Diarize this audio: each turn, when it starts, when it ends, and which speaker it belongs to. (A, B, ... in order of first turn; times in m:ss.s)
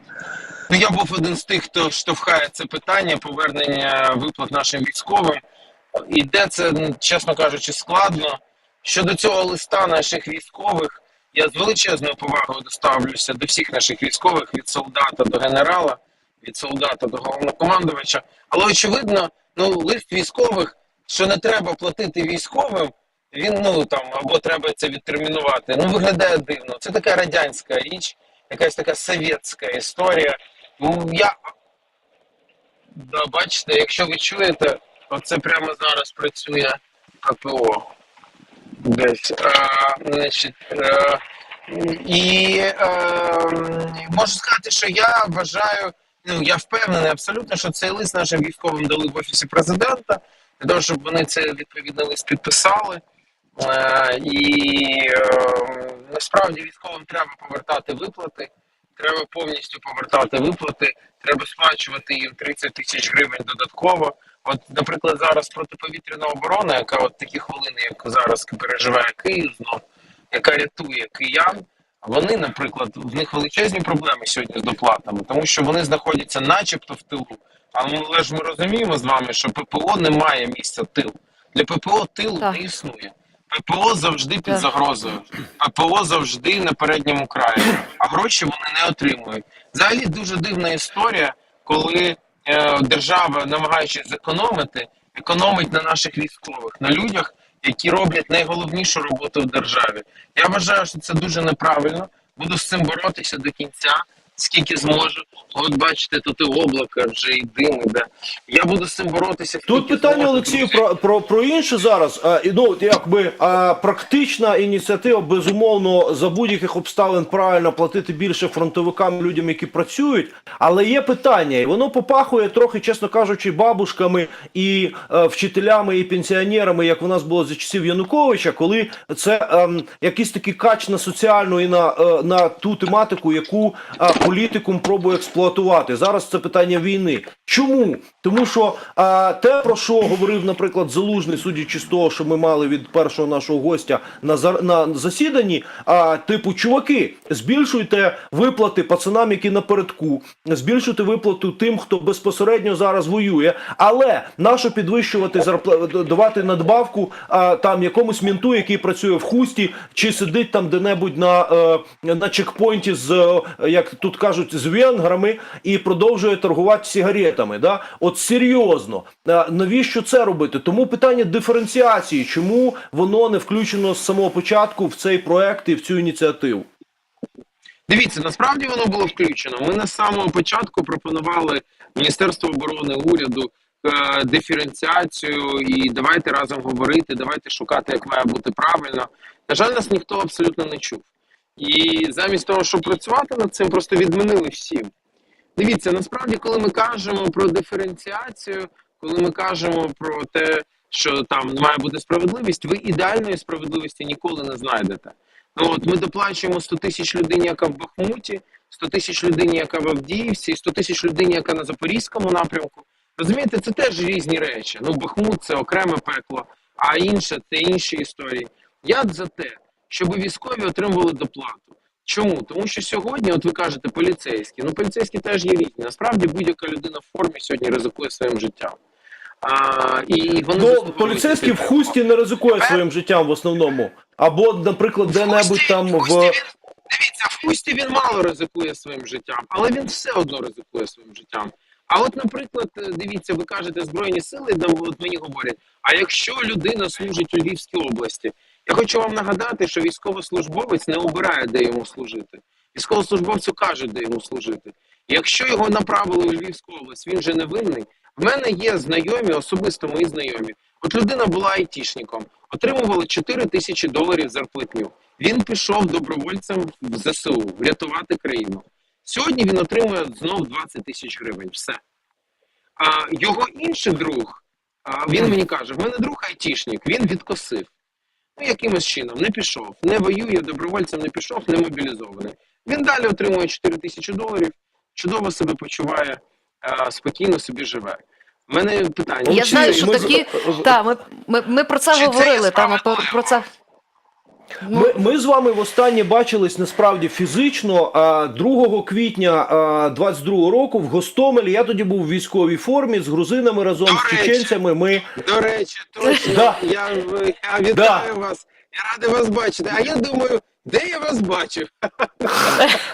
0:00.7-0:05.4 A
0:06.0-0:31.4 A
0:33.0-0:37.9 A
0:38.8-0:53.0 A
0:53.6-1:50.8 A
1:49.7-2:56.7 B
2:57.9-3:14.9 A
3:15.6-3:48.8 A
3:49.4-3:51.9 A
3:50.5-3:56.4 B
3:52.6-3:52.8 A
3:55.1-4:31.8 A
4:32.8-4:37.7 A
4:38.4-4:50.3 A
4:49.2-4:50.7 B
4:49.3-4:53.5 C
4:51.9-4:53.4 A
4:54.6-4:54.9 C
4:54.7-5:05.1 B
5:03.9-5:04.6 A
5:05.2-5:12.7 A
5:06.1-5:06.6 B
5:07.7-5:08.1 B